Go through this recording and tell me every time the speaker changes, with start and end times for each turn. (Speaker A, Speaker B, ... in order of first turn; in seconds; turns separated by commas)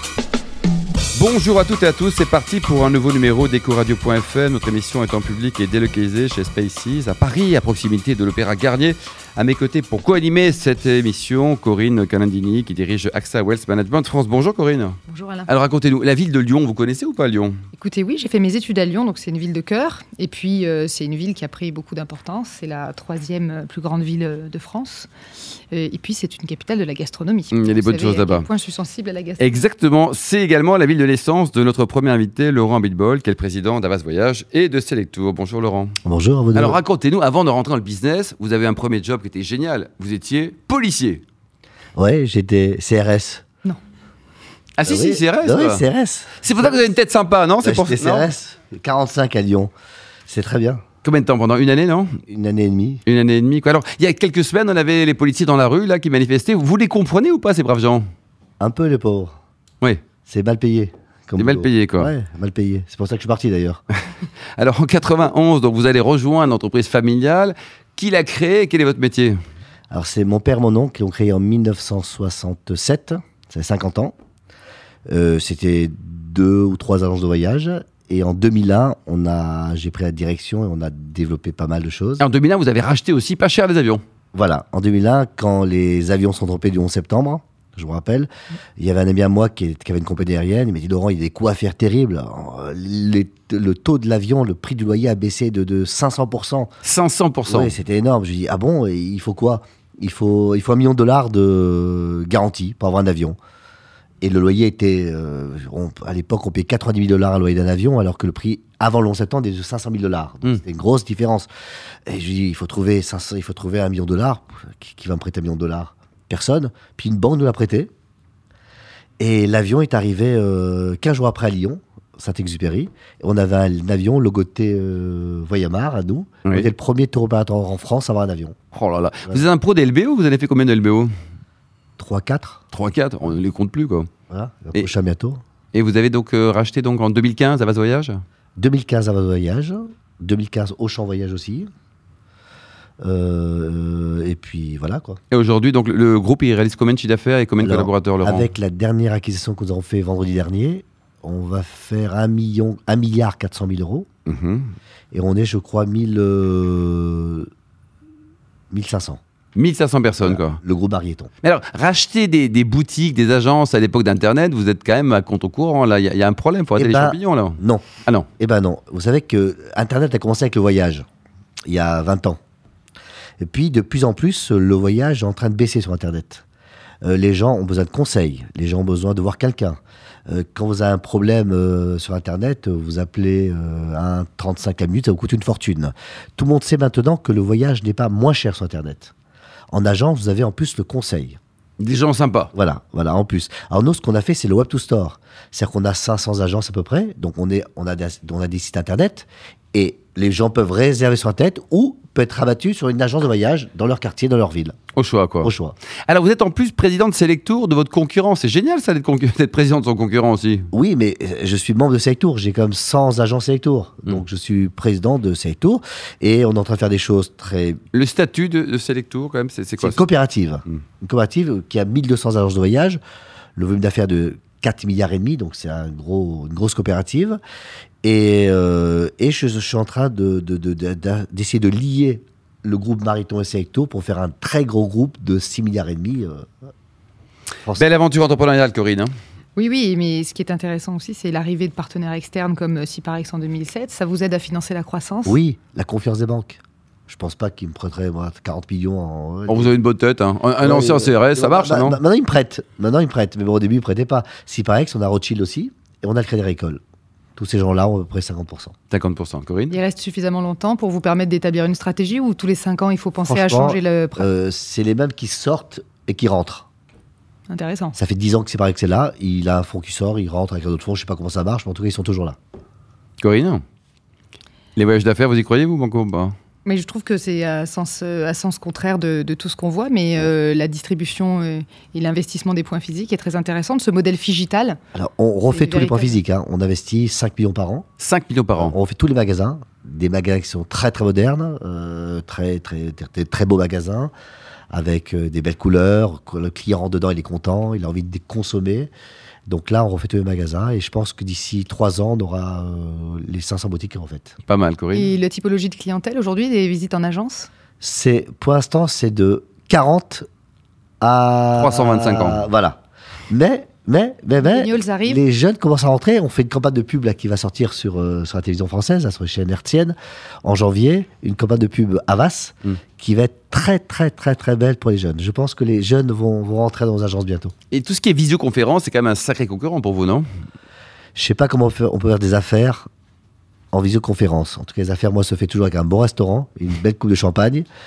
Speaker A: 1.1-17.5, Speaker B: 15.1-15.5, Speaker B: 17.8-25.1, Speaker B: 25.7-29.6, Speaker A: 27.5-28.5, Speaker A: 29.4-35.9, Speaker C: 36.0-36.8, Speaker A: 36.5-41.2, Speaker C: 42.0-43.4, Speaker A: 44.8-45.8, Speaker C: 44.8-46.4, Speaker A: 46.4-48.3, Speaker C: 47.6-49.7, Speaker C: 50.3-50.8, Speaker A: 51.0-52.2, Speaker C: 52.3-53.0, Speaker A: 53.0-58.0, Speaker C: 58.6-59.3, Speaker C: 60.2-63.8, Speaker A: 61.4-62.1, Speaker A: 64.6-69.4, Speaker C: 69.9-74.1, Speaker C: 75.1-82.2, Speaker A: 82.2-84.0, Speaker C: 84.3-96.7, Speaker A: 96.8-97.8, Speaker C: 97.5-103.4, Speaker C: 104.2-111.5, Speaker C: 112.1-117.9, Speaker C: 119.2-128.6, Speaker A: 128.7-131.1, Speaker C: 132.0-132.6, Speaker A: 132.7-134.1, Speaker C: 134.3-135.4, Speaker A: 135.7-138.2, Speaker C: 138.6-141.7, Speaker C: 143.0-145.2, Speaker A: 145.3-148.5, Speaker C: 147.6-154.1, Speaker A: 154.2-154.7, Speaker C: 155.1-157.5, Speaker C: 158.7-159.2, Speaker A: 159.5-160.6, Speaker C: 160.2-161.3, Speaker A: 161.4-168.3, Speaker C: 166.8-167.8, Speaker C: 168.4-171.1, Speaker C: 171.7-172.4, Speaker C: 173.4-176.4, Speaker C: 177.0-189.1, Speaker C: 189.7-191.4, Speaker A: 191.8-192.5, Speaker C: 192.5-204.8, Speaker A: 204.9-205.5, Speaker C: 205.4-205.8, Speaker A: 206.1-210.7, Speaker C: 210.7-217.8, Speaker A: 217.9-220.0, Speaker C: 219.8-223.0, Speaker C: 223.6-227.4, Speaker C: 228.0-236.7, Speaker A: 237.7-239.1, Speaker B: 239.6-245.4, Speaker C: 245.2-249.7, Speaker A: 249.5-252.0, Speaker C: 250.6-256.8, Speaker C: 257.4-258.7, Speaker A: 258.9-259.8, Speaker B: 259.7-264.3, Speaker C: 263.2-266.7, Speaker B: 267.5-267.9, Speaker C: 267.9-272.4, Speaker A: 273.2-273.6, Speaker A: 274.8-276.3, Speaker B: 276.6-284.8, Speaker C: 284.9-287.9, Speaker B: 285.5-286.2, Speaker A: 288.0-288.8, Speaker C: 288.6-294.1, Speaker C: 294.7-298.9, Speaker C: 299.5-304.4, Speaker A: 304.5-305.1, Speaker B: 304.9-307.5, Speaker C: 307.8-310.2, Speaker C: 311.0-327.5, Speaker A: 311.5-312.5, Speaker B: 314.4-315.2, Speaker A: 327.7-330.2, Speaker C: 331.1-332.9, Speaker C: 333.7-337.7